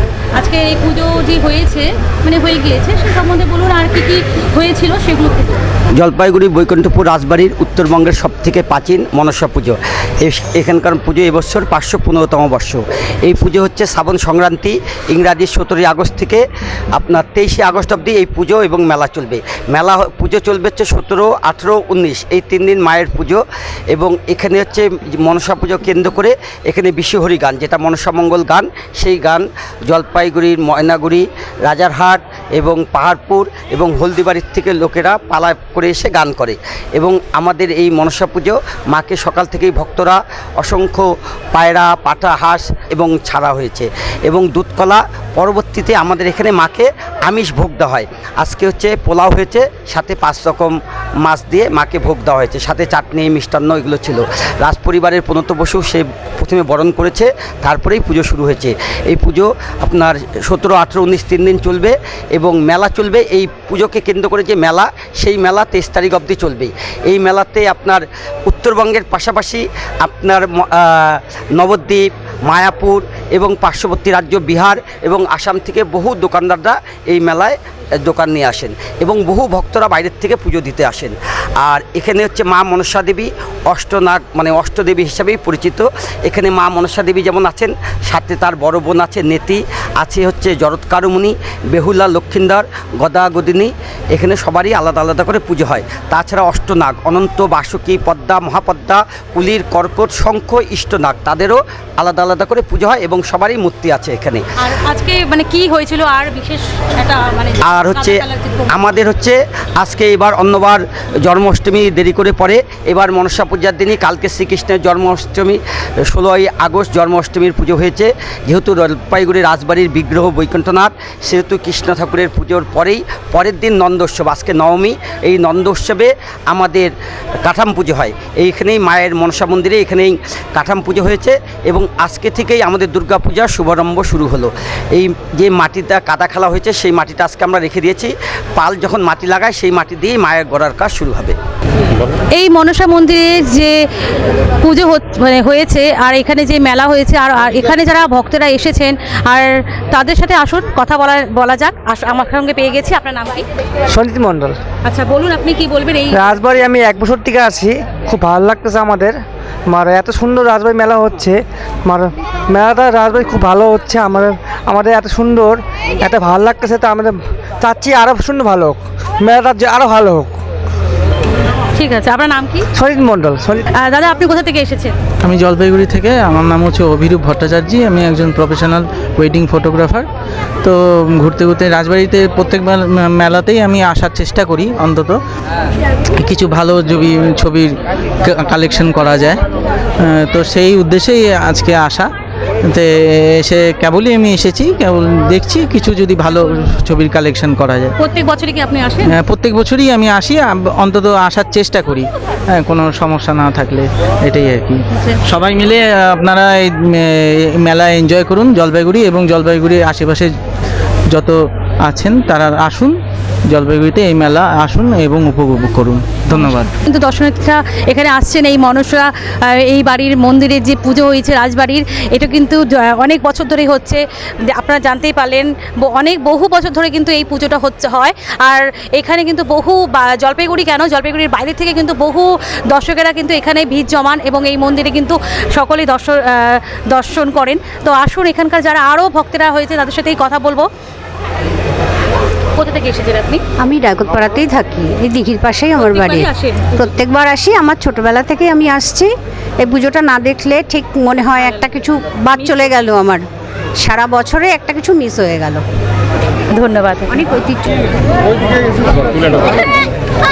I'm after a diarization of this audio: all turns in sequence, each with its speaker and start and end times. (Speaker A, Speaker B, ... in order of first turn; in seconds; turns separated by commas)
Speaker A: 0.3-5.6, Speaker B: 6.0-104.4, Speaker A: 104.6-108.8, Speaker B: 107.6-126.9, Speaker B: 127.4-141.3, Speaker A: 142.3-143.8, Speaker A: 144.6-153.4, Speaker C: 153.9-154.6, Speaker A: 154.8-156.4, Speaker C: 156.1-159.2, Speaker C: 159.7-170.4, Speaker A: 171.8-172.7, Speaker C: 172.8-173.7, Speaker A: 173.8-174.9, Speaker D: 175.2-180.1, Speaker D: 180.6-185.2, Speaker D: 186.2-189.4, Speaker D: 190.0-192.1, Speaker D: 192.7-197.9, Speaker A: 198.0-199.2, Speaker D: 199.1-210.3, Speaker D: 211.1-212.9, Speaker D: 213.5-216.7, Speaker A: 216.4-240.7, Speaker A: 242.5-243.4, Speaker E: 243.6-246.2, Speaker A: 245.7-246.9, Speaker E: 246.8-249.1, Speaker E: 249.6-253.2, Speaker A: 251.3-252.8, Speaker E: 253.8-255.6, Speaker A: 256.5-257.6